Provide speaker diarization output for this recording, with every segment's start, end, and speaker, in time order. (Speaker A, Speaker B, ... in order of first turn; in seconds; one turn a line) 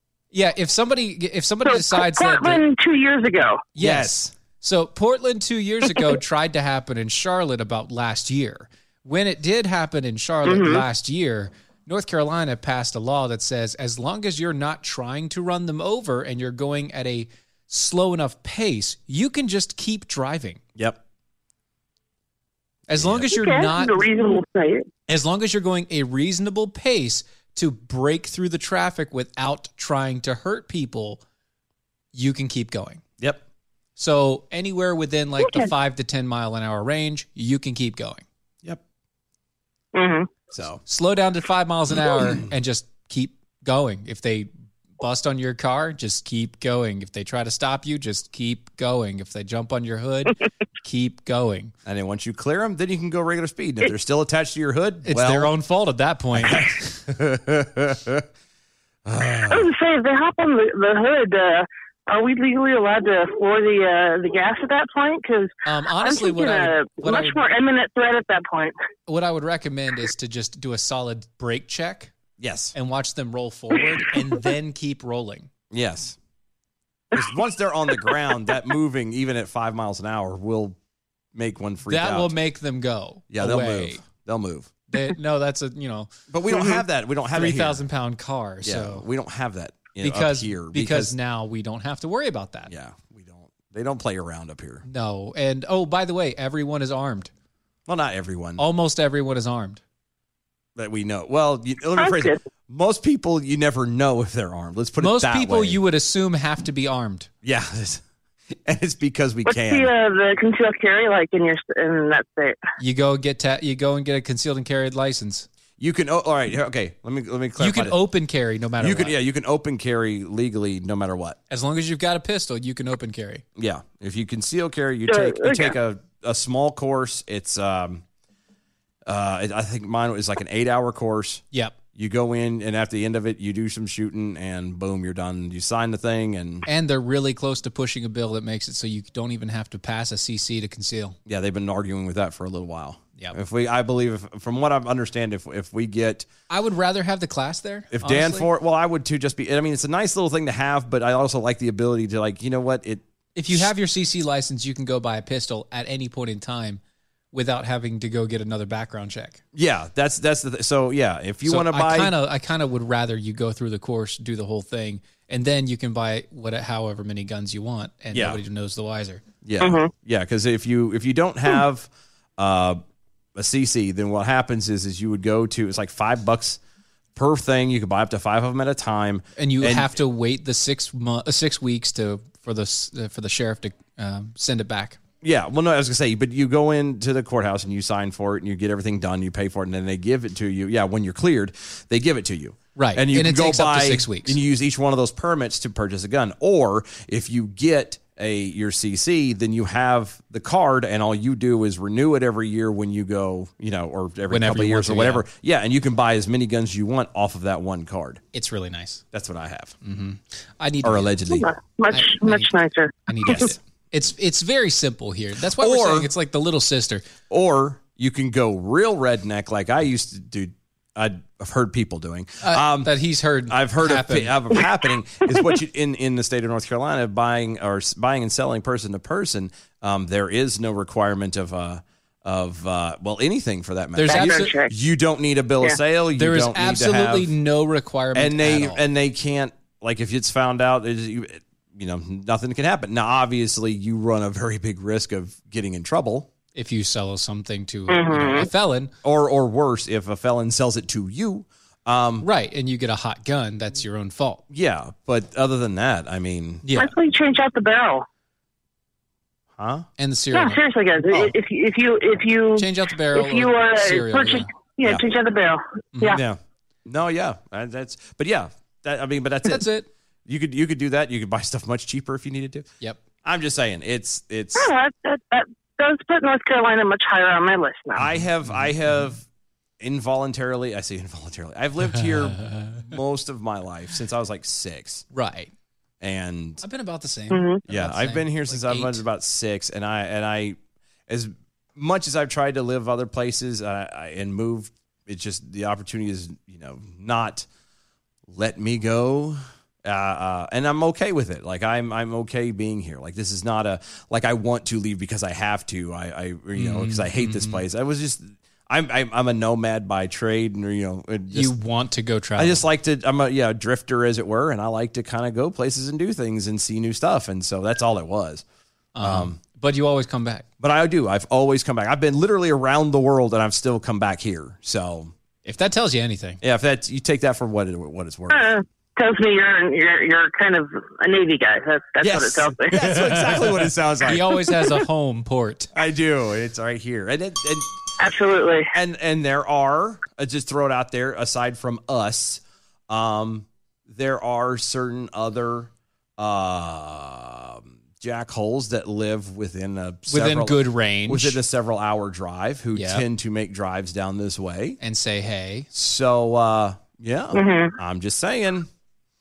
Speaker A: 0.3-2.6
Speaker B: 1.7-3.6
Speaker A: 3.8-20.6
Speaker C: 3.8-4.3
Speaker B: 10.5-10.8
Speaker A: 22.9-24.0
Speaker C: 22.9-23.3
Speaker B: 23.3-24.9
Speaker A: 25.1-31.2
Speaker A: 32.1-33.0
Speaker A: 34.0-38.2
Speaker B: 35.4-35.7
Speaker B: 39.9-40.3
Speaker C: 40.5-40.8
Speaker A: 40.9-51.7
Speaker C: 42.1-42.4
Speaker C: 51.9-55.5
Speaker A: 55.1-57.0
Speaker C: 56.4-58.3
Speaker C: 59.0-59.7
Speaker B: 59.5-68.8
Speaker A: 65.7-67.4
Speaker A: 69.1-72.1
Speaker C: 72.4-72.7
Speaker A: 72.7-75.5
Speaker C: 75.7-76.2
Speaker C: 77.1-80.8
Speaker C: 81.3-82.3
Speaker A: 81.9-84.0
Speaker C: 83.3-84.7
Speaker A: 84.9-86.7
Speaker C: 86.3-87.8
Speaker A: 87.3-89.1
Speaker C: 88.6-91.2
Speaker A: 90.0-92.7
Speaker C: 92.7-94.8
Speaker A: 94.9-97.3
Speaker C: 97.9-98.6
Speaker A: 98.6-99.8
Speaker C: 100.8-105.8
Speaker B: 102.0-102.4
Speaker A: 105.0-107.3
Speaker C: 107.4-109.9
Speaker B: 109.5-112.6
Speaker A: 112.8-115.5
Speaker C: 115.8-118.0
Speaker A: 117.6-119.2
Speaker C: 118.8-121.4
Speaker A: 121.5-123.4
Speaker C: 123.6-128.0
Speaker B: 125.1-125.7
Speaker C: 129.1-131.4
Speaker C: 131.9-136.7
Speaker A: 136.7-141.2
Speaker C: 141.3-146.3
Speaker A: 146.5-148.5
Speaker C: 147.9-153.7
Speaker A: 153.3-156.8
Speaker A: 157.3-159.4
Speaker C: 159.5-162.1
Speaker A: 161.5-169.2
Speaker C: 168.1-168.4
Speaker C: 169.4-172.8
Speaker B: 169.6-169.9
Speaker C: 173.3-176.6
Speaker C: 177.2-179.9
Speaker A: 179.4-185.0
Speaker C: 185.2-208.2
Speaker A: 192.8-194.4
Speaker A: 204.3-205.2
Speaker A: 208.3-209.0
Speaker C: 209.1-209.8
Speaker A: 209.8-211.2
Speaker C: 210.8-211.5
Speaker B: 211.3-213.5
Speaker A: 211.9-212.5
Speaker A: 213.1-217.1
Speaker C: 213.3-213.5
Speaker C: 215.6-216.1
Speaker C: 217.3-222.9
Speaker A: 222.4-224.4
Speaker C: 223.5-237.3
Speaker A: 234.0-234.5
Speaker B: 234.1-234.7
Speaker A: 236.1-238.8
Speaker C: 238.2-246.3
Speaker A: 246.6-248.9
Speaker B: 247.9-248.5
Speaker C: 249.0-252.3
Speaker A: 252.2-254.4
Speaker C: 254.5-256.6
Speaker A: 256.6-256.9
Speaker B: 256.8-258.1
Speaker C: 259.6-259.9
Speaker A: 260.0-261.3
Speaker B: 260.3-266.2
Speaker A: 262.6-264.5
Speaker C: 266.1-269.7
Speaker A: 269.5-269.9
Speaker C: 270.3-272.7
Speaker C: 273.2-274.7
Speaker B: 274.6-278.1
Speaker C: 277.9-279.2
Speaker C: 279.8-285.1
Speaker A: 281.9-282.8
Speaker A: 285.1-285.5
Speaker C: 286.0-286.6
Speaker A: 286.6-289.0
Speaker B: 287.3-287.6
Speaker C: 287.7-297.5
Speaker C: 298.3-311.5
Speaker A: 306.6-307.6
Speaker A: 311.3-312.6
Speaker C: 312.4-318.4
Speaker A: 318.9-320.5
Speaker C: 319.0-319.4
Speaker C: 320.6-325.1
Speaker A: 325.4-326.4
Speaker C: 326.4-328.5
Speaker B: 328.3-332.8
Speaker C: 332.0-334.4
Speaker A: 332.8-335.7
Speaker C: 335.7-337.7
Speaker B: 338.0-338.7
Speaker C: 338.7-354.8
Speaker A: 350.1-351.4
Speaker A: 352.7-353.1
Speaker A: 354.8-355.7
Speaker C: 355.7-358.7
Speaker B: 357.3-357.8